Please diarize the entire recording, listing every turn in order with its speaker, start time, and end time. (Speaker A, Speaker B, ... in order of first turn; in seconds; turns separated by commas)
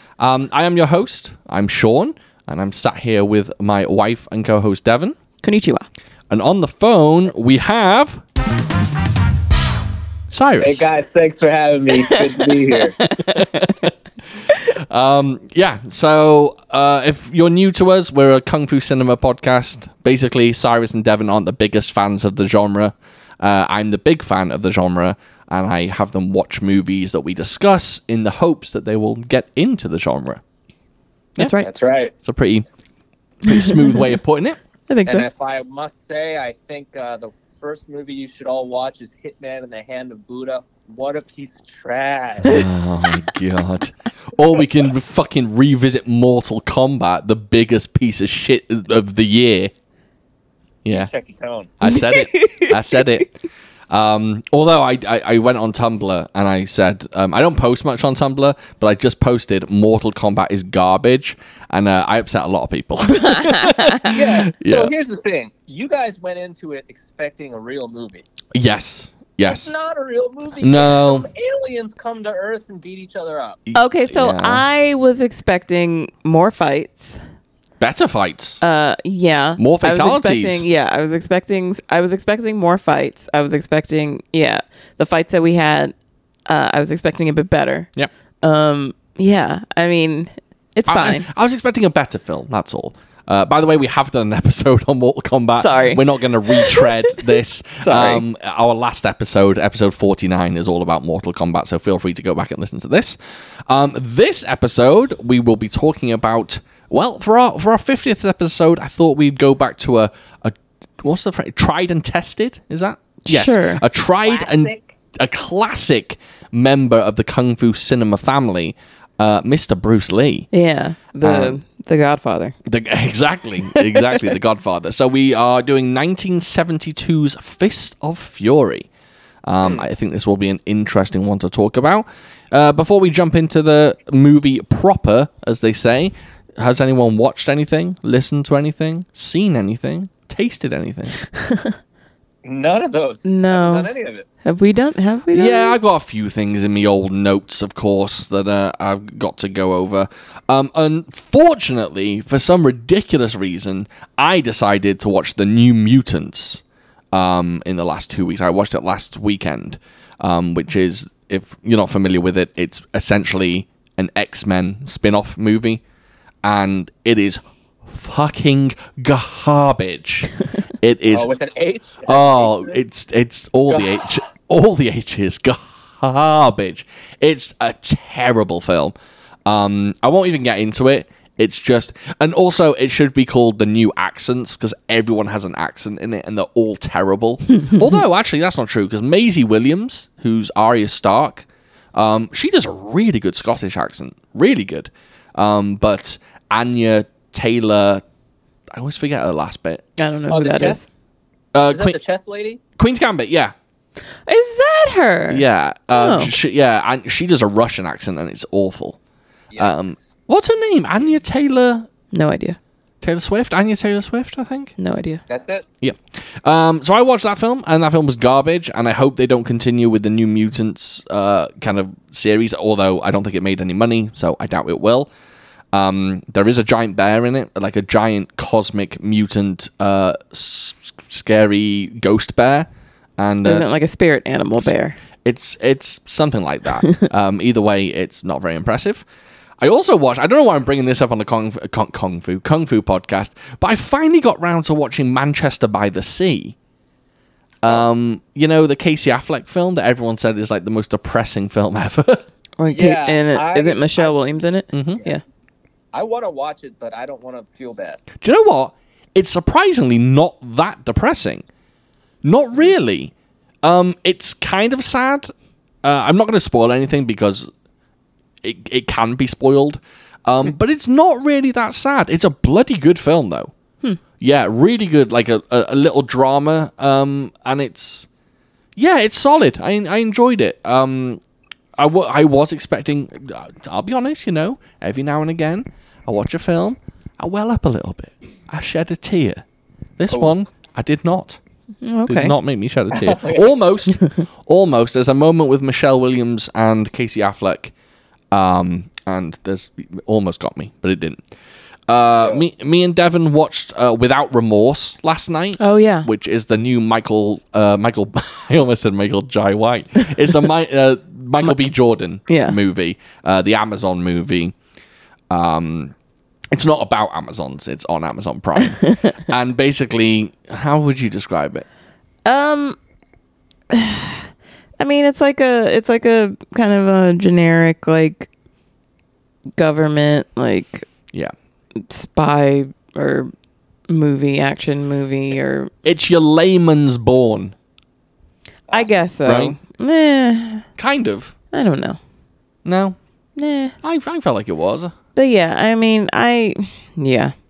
Speaker A: 0.2-5.2, Speaker B: 5.4-5.8, Speaker A: 6.3-8.2, Speaker A: 10.3-10.9, Speaker C: 10.6-13.0, Speaker B: 12.0-13.9, Speaker A: 13.3-13.9, Speaker A: 14.5-30.4, Speaker B: 31.4-31.7, Speaker C: 31.6-32.1, Speaker A: 32.2-32.6, Speaker A: 33.4-34.6, Speaker B: 33.5-34.0, Speaker B: 34.9-35.3, Speaker C: 35.0-42.6, Speaker A: 42.4-49.7, Speaker A: 50.9-51.1, Speaker C: 50.9-51.7, Speaker A: 51.8-53.3, Speaker B: 51.9-53.2, Speaker A: 53.9-64.9, Speaker B: 63.1-64.1, Speaker C: 64.1-68.3, Speaker A: 68.5-69.7, Speaker C: 69.4-73.6, Speaker A: 70.6-71.3, Speaker A: 73.7-74.6, Speaker B: 73.8-77.2, Speaker A: 77.8-78.6, Speaker B: 78.6-85.9, Speaker A: 79.6-80.7, Speaker B: 86.5-87.9, Speaker B: 88.4-91.3, Speaker A: 90.8-120.5, Speaker B: 95.6-98.2, Speaker B: 113.2-113.8, Speaker C: 114.2-115.0, Speaker B: 120.5-122.5, Speaker A: 121.2-121.6, Speaker A: 122.7-128.9, Speaker B: 123.7-124.2, Speaker A: 129.4-141.2, Speaker B: 141.3-141.7, Speaker C: 142.4-144.3, Speaker B: 143.2-143.9, Speaker B: 144.4-145.8, Speaker A: 145.3-165.8, Speaker A: 166.4-171.3, Speaker C: 171.1-172.8, Speaker A: 172.1-178.9, Speaker C: 173.7-174.1, Speaker A: 179.5-198.0, Speaker A: 198.7-199.8, Speaker B: 200.0-200.9, Speaker C: 200.3-200.8, Speaker A: 201.5-202.0, Speaker C: 201.7-202.6, Speaker A: 202.8-203.5, Speaker B: 204.3-206.3, Speaker A: 205.3-209.0, Speaker C: 209.5-210.1, Speaker A: 209.6-211.9, Speaker B: 212.1-212.6, Speaker A: 213.0-214.7, Speaker B: 214.8-215.2, Speaker C: 215.3-215.7, Speaker A: 215.8-225.1, Speaker A: 225.7-233.7, Speaker B: 233.4-234.9, Speaker A: 235.2-239.0, Speaker A: 239.6-246.6, Speaker A: 247.6-252.3, Speaker B: 252.6-255.2, Speaker C: 252.7-254.2, Speaker A: 254.7-255.0, Speaker C: 255.9-258.0, Speaker A: 258.2-261.4, Speaker A: 262.2-263.1, Speaker A: 263.6-267.5, Speaker A: 268.4-273.5, Speaker A: 274.2-278.1, Speaker A: 278.8-281.2, Speaker A: 281.8-289.4, Speaker A: 290.0-291.4, Speaker C: 290.1-290.4, Speaker B: 291.8-292.4, Speaker A: 292.1-297.7, Speaker C: 292.9-293.5, Speaker A: 298.3-301.2, Speaker A: 301.9-314.5, Speaker B: 305.6-306.1, Speaker B: 312.3-312.6, Speaker A: 315.3-315.9, Speaker A: 316.5-321.6, Speaker B: 318.7-319.1, Speaker B: 322.2-322.8, Speaker B: 323.7-324.3, Speaker B: 324.8-328.3, Speaker B: 329.6-330.9, Speaker B: 331.8-333.3, Speaker B: 333.9-335.7, Speaker A: 335.8-337.6, Speaker B: 338.7-340.7, Speaker A: 339.2-339.6, Speaker A: 340.8-341.3, Speaker B: 341.5-342.0, Speaker A: 342.6-343.0, Speaker B: 343.4-343.8, Speaker A: 343.8-344.9, Speaker B: 345.2-347.3